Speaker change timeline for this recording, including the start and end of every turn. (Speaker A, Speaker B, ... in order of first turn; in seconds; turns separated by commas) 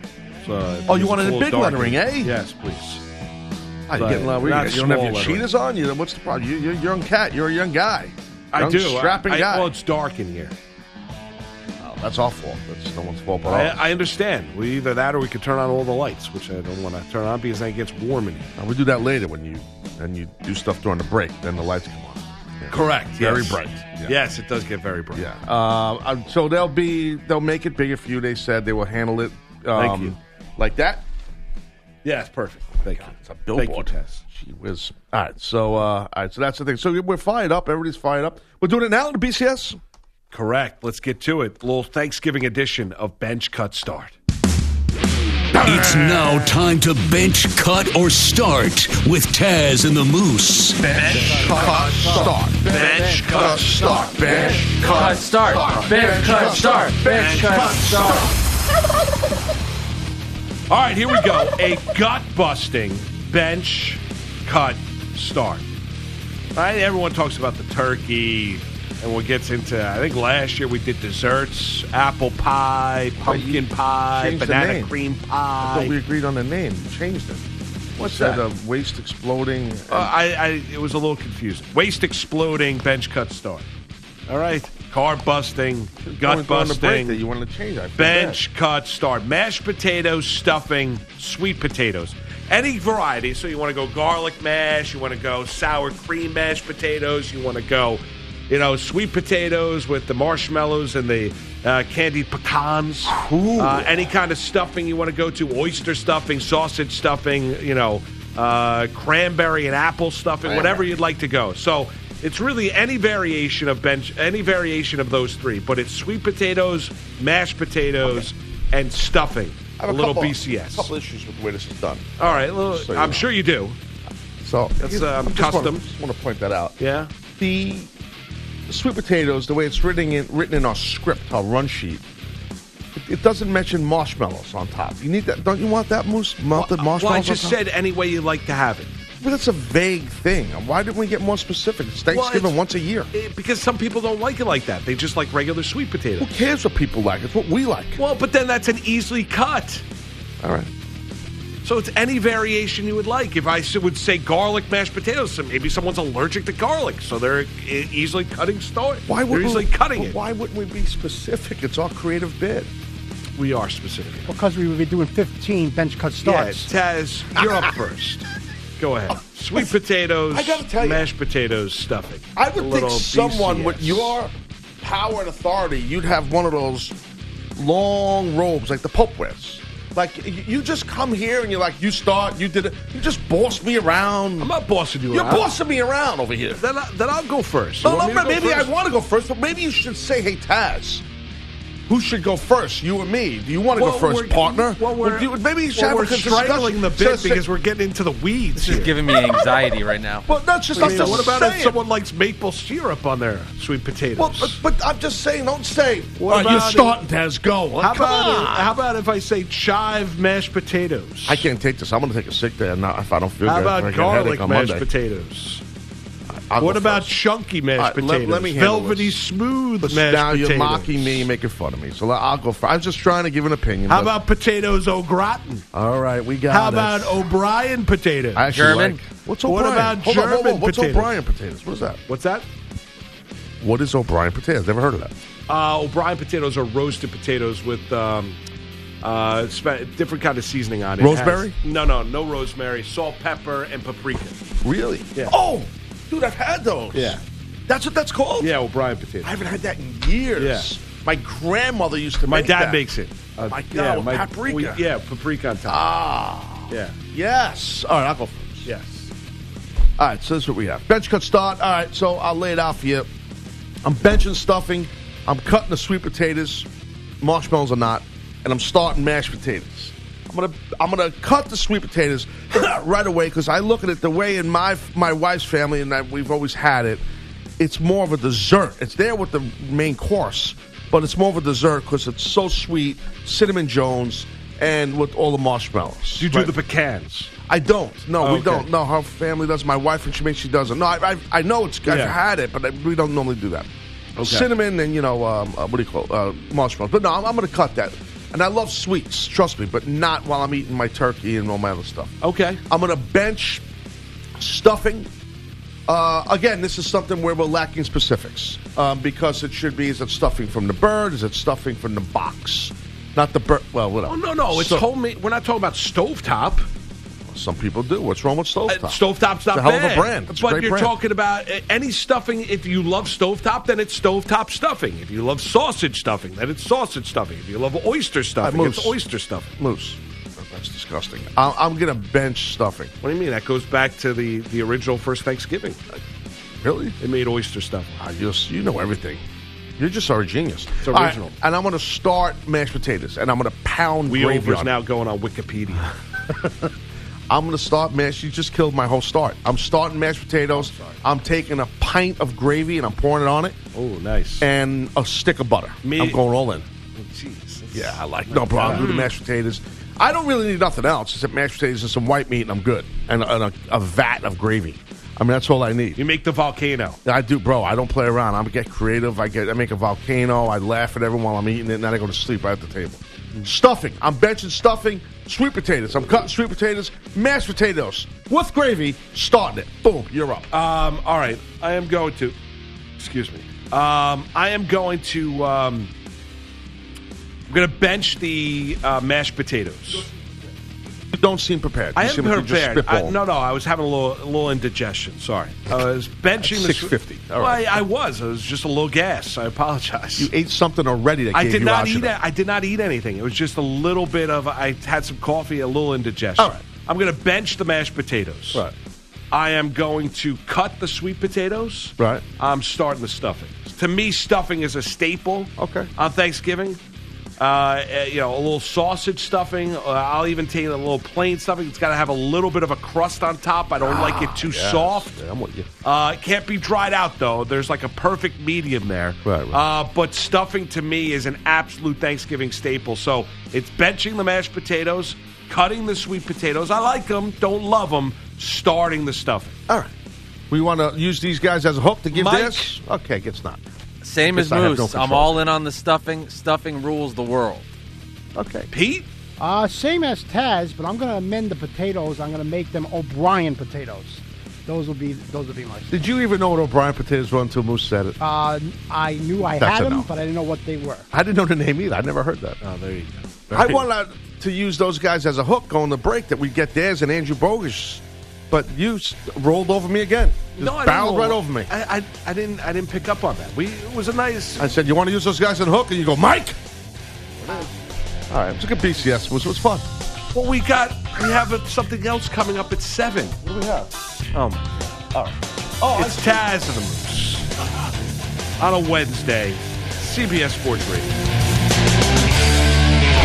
Speaker A: 0.4-3.0, Speaker B: 0.9-2.3, Speaker B: 3.9-9.7, Speaker A: 3.9-5.4, Speaker A: 8.5-10.5, Speaker B: 11.8-13.9, Speaker A: 13.4-18.5, Speaker B: 18.6-24.2, Speaker A: 22.7-25.2, Speaker B: 25.1-31.0, Speaker A: 29.7-30.1, Speaker A: 32.0-34.2, Speaker B: 32.9-39.8, Speaker A: 40.3-44.1, Speaker B: 45.5-46.5, Speaker C: 45.6-50.8, Speaker A: 50.8-54.2, Speaker B: 50.9-58.3, Speaker D: 54.5-58.2, Speaker A: 54.8-55.1, Speaker A: 57.0-58.1, Speaker A: 60.7-65.6, Speaker A: 66.5-76.0, Speaker B: 73.2-74.9, Speaker B: 75.6-77.4, Speaker B: 78.0-80.1, Speaker A: 78.0-78.4, Speaker A: 79.9-83.7, Speaker A: 84.3-87.2, Speaker B: 86.0-88.4, Speaker A: 88.0-120.9, Speaker B: 103.1-104.1, Speaker B: 110.4-110.8, Speaker B: 119.8-123.2, Speaker A: 122.2-123.8, Speaker B: 124.4-126.8, Speaker A: 124.8-125.8, Speaker A: 126.8-127.1, Speaker B: 127.4-127.9, Speaker B: 128.7-132.0, Speaker B: 132.9-137.6, Speaker A: 136.5-138.9, Speaker B: 139.2-143.1, Speaker A: 142.1-142.6, Speaker A: 143.1-146.3, Speaker B: 146.2-148.0, Speaker A: 148.0-149.8, Speaker B: 150.4-150.7, Speaker A: 151.6-160.2, Speaker B: 159.1-162.7, Speaker A: 163.3-164.3, Speaker E: 164.3-166.7, Speaker A: 166.2-168.2, Speaker A: 168.8-174.1, Speaker B: 170.3-171.1, Speaker B: 172.3-177.0, Speaker B: 177.6-184.5, Speaker A: 184.4-185.5, Speaker B: 185.1-186.6, Speaker A: 186.6-188.7, Speaker B: 187.8-191.0, Speaker B: 191.9-197.4, Speaker A: 193.7-199.0, Speaker D: 198.6-201.2, Speaker B: 198.6-199.7, Speaker B: 200.3-201.8, Speaker A: 200.8-204.6, Speaker B: 204.2-208.7, Speaker A: 206.2-207.0, Speaker A: 207.8-211.5, Speaker B: 211.2-214.8, Speaker A: 213.4-215.6, Speaker B: 216.3-217.1, Speaker A: 216.6-221.2, Speaker B: 217.8-219.1, Speaker B: 219.8-224.1, Speaker A: 223.9-225.7, Speaker B: 225.7-227.2, Speaker A: 226.5-228.5, Speaker B: 228.3-232.0, Speaker D: 228.5-229.0, Speaker A: 229.4-231.1, Speaker A: 232.1-232.4, Speaker B: 233.6-235.1, Speaker A: 235.5-238.4, Speaker A: 239.0-244.4, Speaker B: 241.0-241.6, Speaker B: 244.6-248.5, Speaker A: 246.9-247.2, Speaker A: 248.4-249.3, Speaker B: 249.2-252.8, Speaker A: 250.4-250.7, Speaker A: 252.2-255.8, Speaker B: 253.4-254.8, Speaker B: 255.7-258.7, Speaker A: 256.7-256.9, Speaker A: 258.6-259.1, Speaker B: 260.0-263.1, Speaker B: 263.8-266.7, Speaker B: 267.2-277.0, Speaker B: 277.6-286.5, Speaker A: 286.2-287.3, Speaker B: 287.5-293.7, Speaker A: 288.2-288.7, Speaker A: 291.9-292.1, Speaker A: 294.2-294.5, Speaker B: 294.2-302.1, Speaker A: 302.2-302.6, Speaker B: 302.7-303.6, Speaker B: 304.4-305.1, Speaker B: 305.9-314.9, Speaker A: 314.1-316.7, Speaker B: 317.3-320.9, Speaker A: 318.7-329.5, Speaker B: 328.4-329.0, Speaker B: 329.6-332.9, Speaker A: 333.0-335.8, Speaker B: 336.6-336.9, Speaker A: 337.0-338.0, Speaker B: 338.0-339.2, Speaker B: 339.8-344.7, Speaker A: 340.8-341.3, Speaker A: 344.1-345.9, Speaker B: 346.3-346.7, Speaker B: 347.3-353.6, Speaker A: 350.5-351.0, Speaker A: 353.7-354.5, Speaker B: 354.4-356.7, Speaker A: 355.8-356.2, Speaker A: 356.9-359.1, Speaker B: 357.7-366.0, Speaker A: 366.0-367.0, Speaker B: 367.0-380.5, Speaker A: 380.5-382.4, Speaker A: 383.0-385.9, Speaker A: 387.5-390.1, Speaker B: 391.1-393.2, Speaker A: 391.9-400.3, Speaker B: 396.4-397.8, Speaker B: 400.2-402.1, Speaker A: 401.3-408.6, Speaker A: 409.3-416.8, Speaker B: 412.0-412.2, Speaker B: 415.6-415.9, Speaker A: 417.4-425.1, Speaker B: 423.8-425.7, Speaker A: 425.8-439.6, Speaker B: 429.2-429.6, Speaker B: 440.5-443.6, Speaker A: 442.1-442.7, Speaker D: 444.0-447.7, Speaker B: 444.3-445.4, Speaker B: 448.3-448.7, Speaker A: 448.7-449.1, Speaker E: 449.4-456.1, Speaker B: 455.9-458.1, Speaker E: 458.2-461.1, Speaker B: 459.4-460.1, Speaker B: 461.1-462.6, Speaker A: 462.6-463.9, Speaker B: 463.5-471.7, Speaker A: 470.6-474.7, Speaker B: 474.6-476.6, Speaker B: 478.3-479.9, Speaker A: 480.3-483.4, Speaker B: 483.4-483.9, Speaker A: 484.3-485.0, Speaker B: 485.1-486.4, Speaker A: 485.9-487.5, Speaker A: 488.6-491.1